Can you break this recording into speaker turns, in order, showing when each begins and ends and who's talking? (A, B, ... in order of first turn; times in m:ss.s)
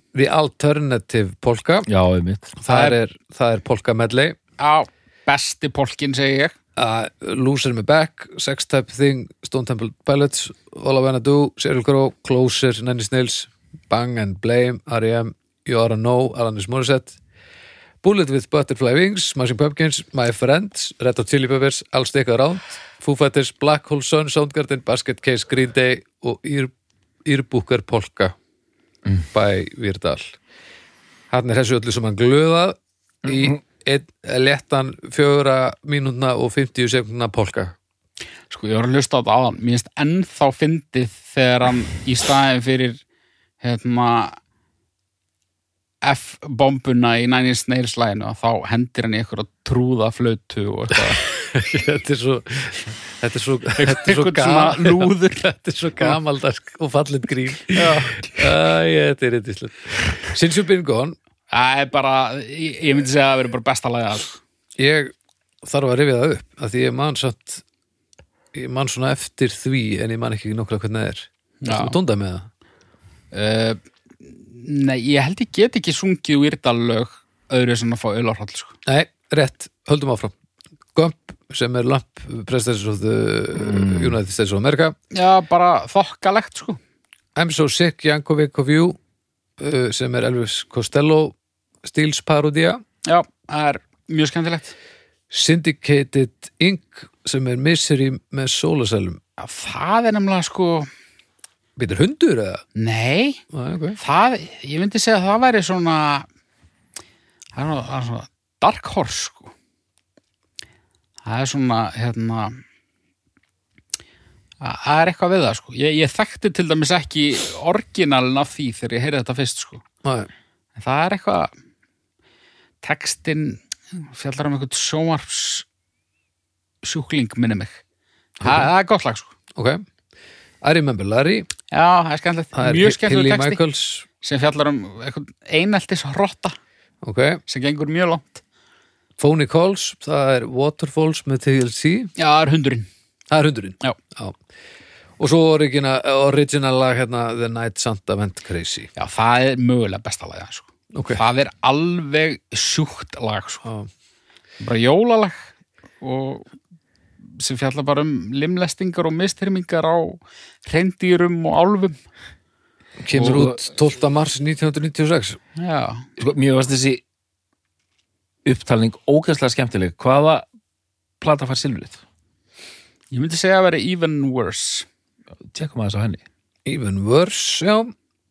0:00.1-0:01.9 A
0:01.9-0:02.6 B
0:02.6-0:04.4 A
0:02.6-0:03.0 C
0:04.6-0:06.6 C
0:06.8-0:17.2 A
0:18.0-0:26.7 A
0:27.2-0:28.4 A
0:29.3-0:30.4 A
0:31.3-0:37.8 A
0:38.5-0:43.0 C
0:43.6-0:44.4 C
0:46.0-0:51.2 C
0:51.0-1:01.2 A
0:53.8-0:55.4 C
0:57.7-0:58.4 C
1:01.5-1:04.4 C
1:04.8-1:05.1 A
1:05.6-1:07.6 A
1:08.5-1:12.5 A
1:11.6-1:12.0 C
1:13.3-1:18.8 C
1:18.9-1:20.3 A
1:21.0-1:25.0 A
1:23.6-1:24.2 B
1:25.1-1:26.8 C
1:27.4-1:29.0 A
1:29.6-1:32.8 A
1:33.0-1:34.7 C
1:35.3-1:39.2 A
1:39.4-1:40.9 C
1:41.8-1:42.6 A
1:42.8-1:43.4 C
1:43.5-1:44.0 A
1:44.0-1:46.3 C
1:47.6-1:49.5 C
1:51.2-1:52.6 C
1:54.6-1:59.8 C
2:00.0-2:00.3 A
2:00.8-2:01.5 C
2:02.8-2:05.7 C
2:06.8-2:07.8 C
2:08.4-2:09.3 C
2:08.4-2:08.7 A
2:09.6-2:09.8 A
2:10.6-2:11.5 A
2:11.7-2:13.6 C
2:12.6-2:14.1 A
2:14.2-2:16.6 C
2:17.0-2:17.4 A
2:17.5-2:18.4 C
2:19.2-2:22.1 A
2:22.2-2:22.9 C
2:23.3-2:24.4 A
2:25.2-2:28.9 A
2:29.0-2:33.6 C
2:30.9-2:31.2 A
2:34.6-2:35.5 C
2:36.0-2:36.5 C
2:37.4-2:42.0 C
2:43.0-2:45.4 A
2:43.1-2:43.6 B
2:45.6-2:46.0 C
2:46.2-2:47.0 B
2:48.4-2:50.4 B
2:51.2-2:52.0 B
2:53.1-2:54.9 C
2:55.5-2:56.2 B
2:56.7-2:57.9 A